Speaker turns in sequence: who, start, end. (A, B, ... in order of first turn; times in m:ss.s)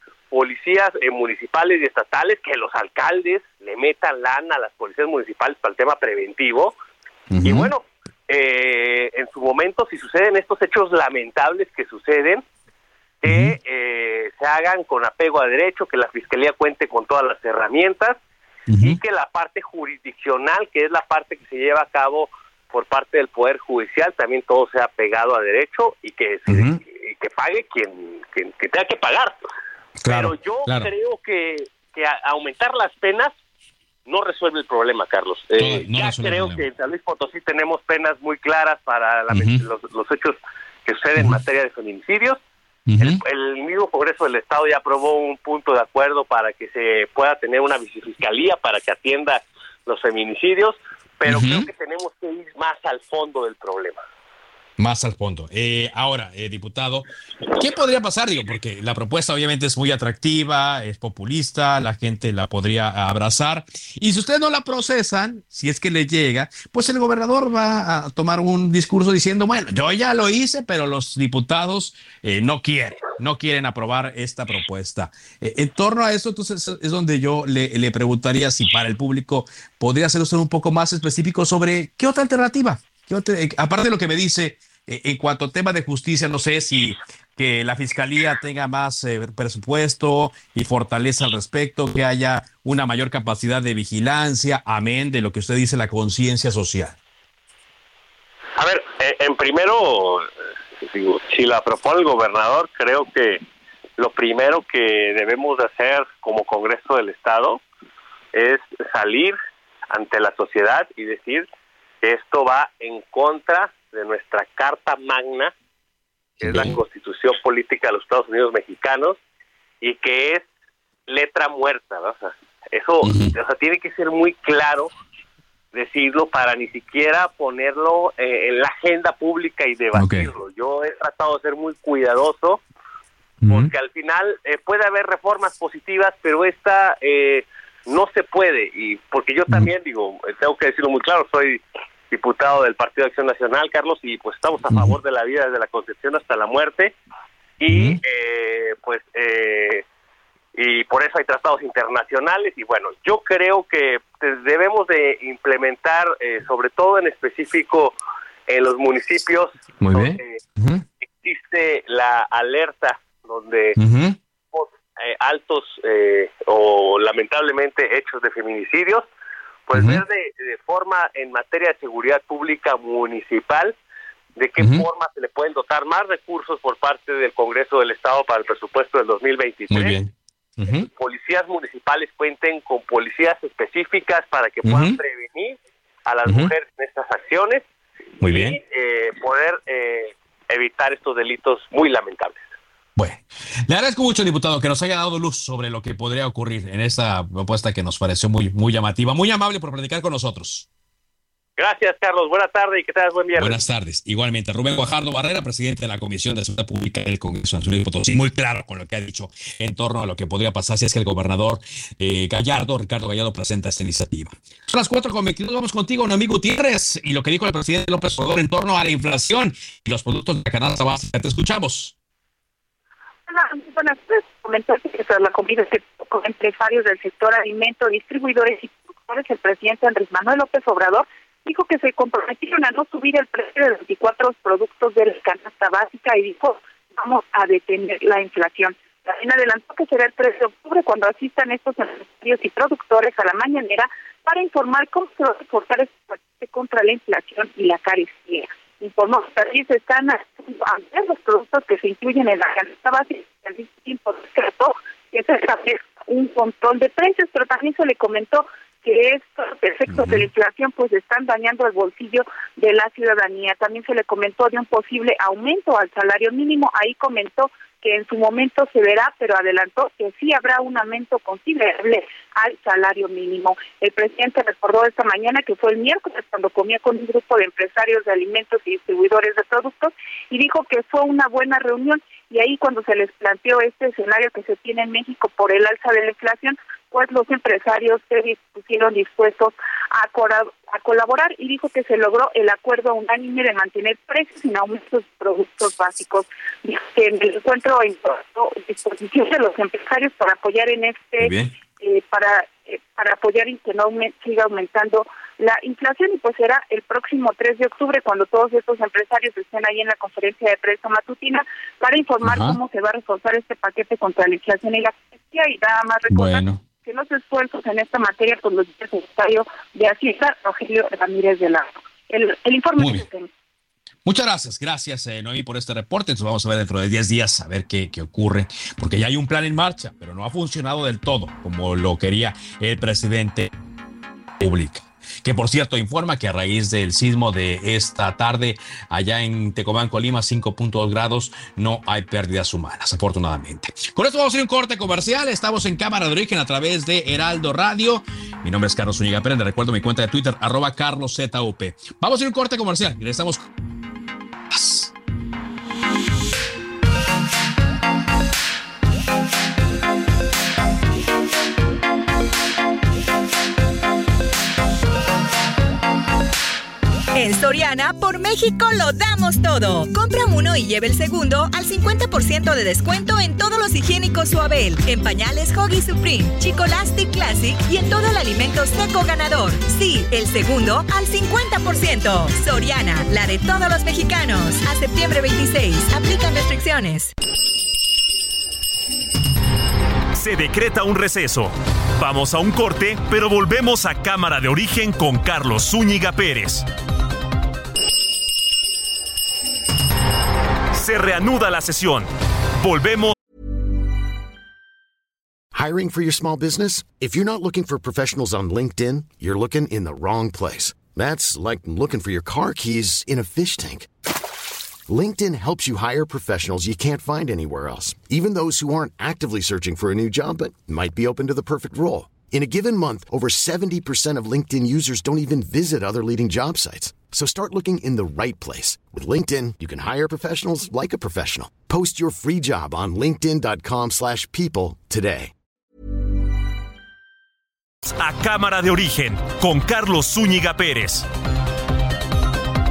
0:00.3-0:06.7 A
0:07.3-0:07.7 B
0:07.4-0:12.4 A
0:13.2-0:18.2 A
0:13.2-0:13.6 B
0:18.7-0:19.0 B
0:18.8-0:29.4 A
0:26.5-0:26.8 B
0:30.0-0:30.9 B
0:30.1-0:33.3 A
0:34.1-0:42.4 A
0:35.6-0:36.6 B
0:39.3-0:39.6 B
0:42.9-0:43.2 B
0:43.0-0:54.0 A
0:51.2-0:51.7 B
0:54.8-1:37.0 B
1:38.6-1:40.3 A
1:40.8-1:43.4 A
1:44.0-1:47.6 A
1:48.3-1:49.4 A
1:49.9-1:51.5 A
1:52.0-1:55.5 A
1:56.4-1:56.8 B
1:56.4-1:59.2 A
1:59.8-2:00.5 A
2:01.1-2:04.9 A
2:03.0-2:03.3 B
2:05.7-2:12.6 A
2:09.9-2:10.3 B
2:13.4-2:13.7 B
2:13.5-2:26.9 A
2:27.6-2:29.8 A
2:27.7-2:28.0 B
2:30.5-2:37.9 A
2:38.5-2:40.4 A
2:39.8-2:40.8 B
2:41.2-2:43.8 A
2:43.8-2:44.2 B
2:44.5-2:49.0 A
2:49.7-2:53.7 A
2:49.7-2:50.0 B
2:54.4-3:00.0 A
2:54.6-2:54.8 B
2:59.7-3:00.9 B
3:00.8-3:07.6 A
3:04.6-3:05.0 B
3:06.2-3:06.5 B
3:08.2-3:08.6 B
3:08.2-3:12.4 A
3:13.0-3:20.7 B
3:21.6-3:23.6 A
3:23.4-3:41.9 B
3:43.3-5:23.3 C
4:19.9-4:20.3 B
5:01.2-5:01.5 B
5:12.2-5:12.6 B
5:16.1-5:16.6 B
5:22.8-5:23.0 B
5:24.0-5:33.5 B
5:34.4-5:53.5 B
5:54.5-5:54.9 B
6:07.1-6:27.1 D
6:30.1-6:36.6 E
6:40.7-6:42.1 E
6:42.6-6:43.1 E
6:45.5-6:53.9 F
6:54.9-7:15.3 F
7:17.8-7:21.0 E